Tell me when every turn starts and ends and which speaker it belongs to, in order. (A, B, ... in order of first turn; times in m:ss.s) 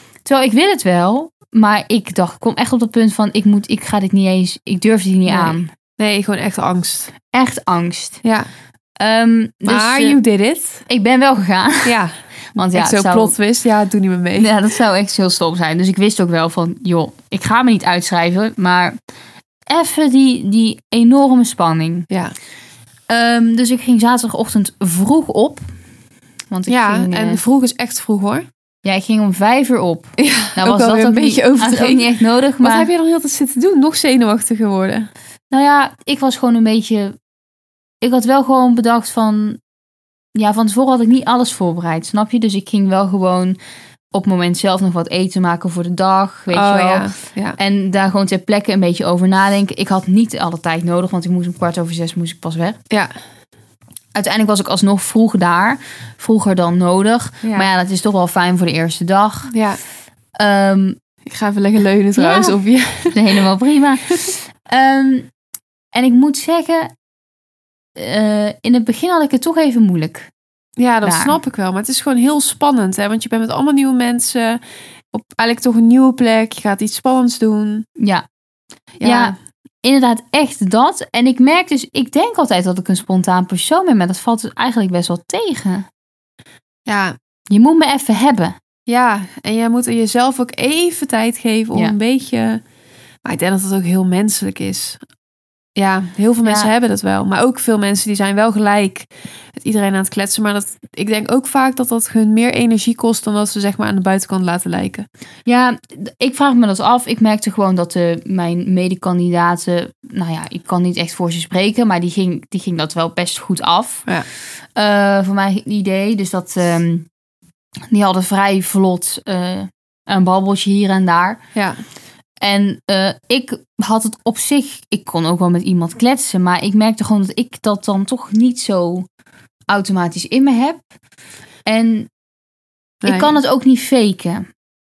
0:00.2-0:05.7 A
0:05.3-0:07.1 B
0:07.3-0:08.2 A
0:08.2-0:08.5 B
0:09.0-0:10.2 A
0:09.6-0:10.9 B
0:10.9-0:12.0 A
0:11.8-0:12.2 B
0:12.6-0:13.4 A
0:12.7-0:14.5 B
0:14.4-0:19.0 A
0:19.7-0:22.1 A
0:22.1-0:22.4 B
0:23.1-0:25.6 A
0:26.5-0:27.4 A
0:26.7-0:28.5 B
0:28.8-0:32.9 A
0:30.2-0:35.1 B
0:35.5-0:37.2 A
0:38.0-0:39.6 A
0:40.4-0:43.6 A
0:44.1-0:52.8 A
0:46.5-0:47.6 B
0:54.2-0:59.5 A
0:57.4-0:57.7 B
0:59.5-0:59.8 B
1:00.4-1:01.0 A
1:01.3-1:03.4 B
1:02.2-1:02.6 A
1:03.1-1:05.3 A
1:05.9-1:06.9 A
1:08.0-1:10.3 A
1:10.8-1:14.6 B
1:11.0-1:11.4 A
1:15.1-1:17.9 B
1:18.0-1:18.2 A
1:19.0-1:19.4 B
1:19.0-1:25.9 A
1:26.9-1:27.2 B
1:27.5-1:28.6 A
1:28.9-1:32.6 B
1:33.2-1:35.0 B
1:35.8-1:45.1 B
1:36.4-1:36.7 A
1:45.5-1:54.1 A
1:54.8-1:57.1 A
1:57.9-2:01.4 A
2:01.6-2:01.8 B
2:02.4-2:09.1 A
2:09.7-2:10.8 A
2:11.7-2:12.1 A
2:13.0-2:13.4 B
2:13.0-2:14.5 A